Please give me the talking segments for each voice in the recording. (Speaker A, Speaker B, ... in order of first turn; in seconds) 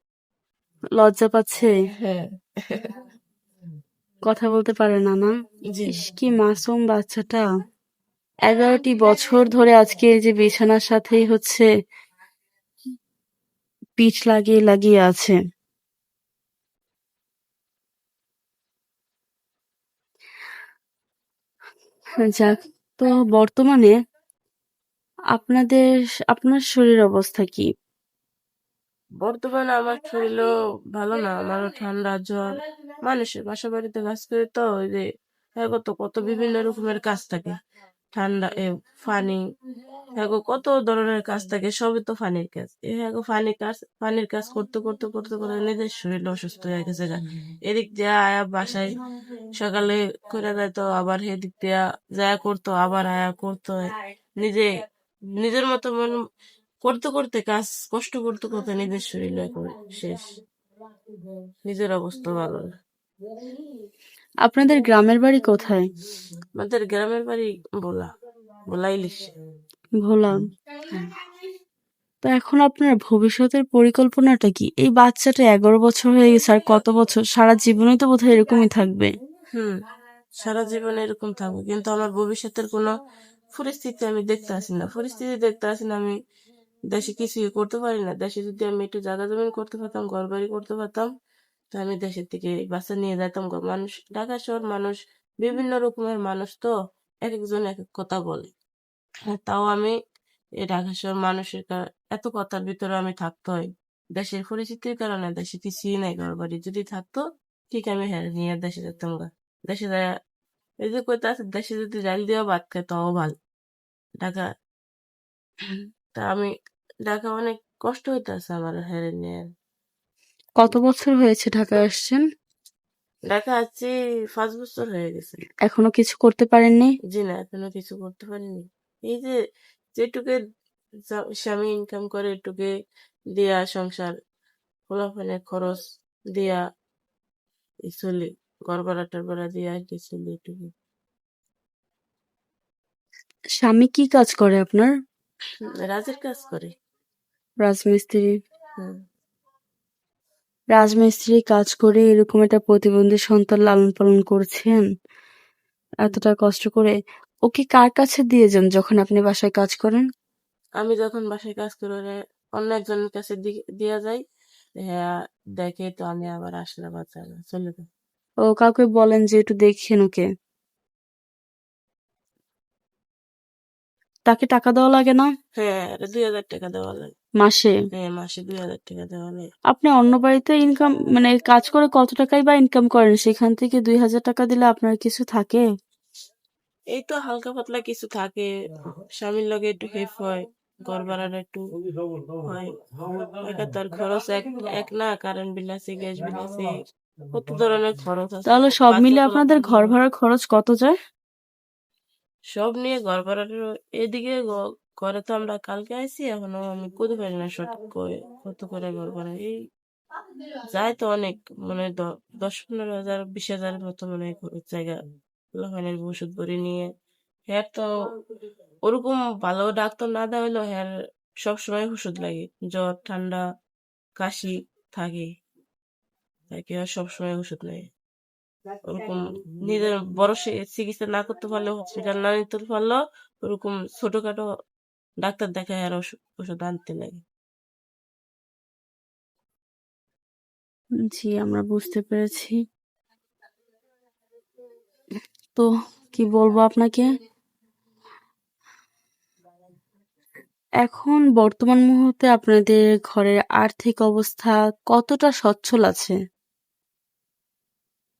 Speaker A: 1.0-1.7, 4.3-5.3, 5.9-7.5, 8.5-11.7, 14.0-15.3, 22.2-23.9, 25.3-27.7, 64.5-65.8, 70.0-70.5, 72.2-79.1, 120.6-122.2, 125.7-126.9, 143.6-144.9, 147.6-148.3, 150.8-154.9, 156.0-156.9, 157.5-160.0, 168.5-170.2, 174.3-175.2, 177.4-177.7, 179.7-185.6, 198.5-200.9, 241.1-242.6, 245.6-247.0, 250.8-256.1
Speaker B: 2.0-3.0, 5.7-6.0, 29.2-32.5, 33.0-35.0, 35.6-37.5, 38.1-39.4, 40.1-49.0, 49.6-54.7, 55.4-56.1, 56.8-60.3, 61.6-62.7, 66.6-68.1, 68.7-69.3, 80.4-82.9, 83.5-86.1, 86.9-91.1, 91.7-96.7, 97.2-98.5, 99.3-100.0, 100.6-110.1, 110.8-113.3, 114.2-114.5, 115.7-116.5, 117.0-119.5, 123.3-125.4, 127.1-129.3, 130.0-130.4, 131.1-132.7, 133.3-134.1, 134.9-135.8, 136.3-136.6, 137.9-140.7, 145.6-146.7, 160.8-164.2, 164.8-167.8, 175.6-177.1, 177.9-179.5, 186.9-188.5, 189.2-191.6, 192.4-192.7, 193.4-196.8, 197.3-199.9, 202.5-209.5, 210.7-215.0, 215.6-216.9, 217.5-217.9, 218.8-220.9, 221.4-223.4, 224.2-225.3, 226.5-227.9, 228.9-234.4, 235.2-237.2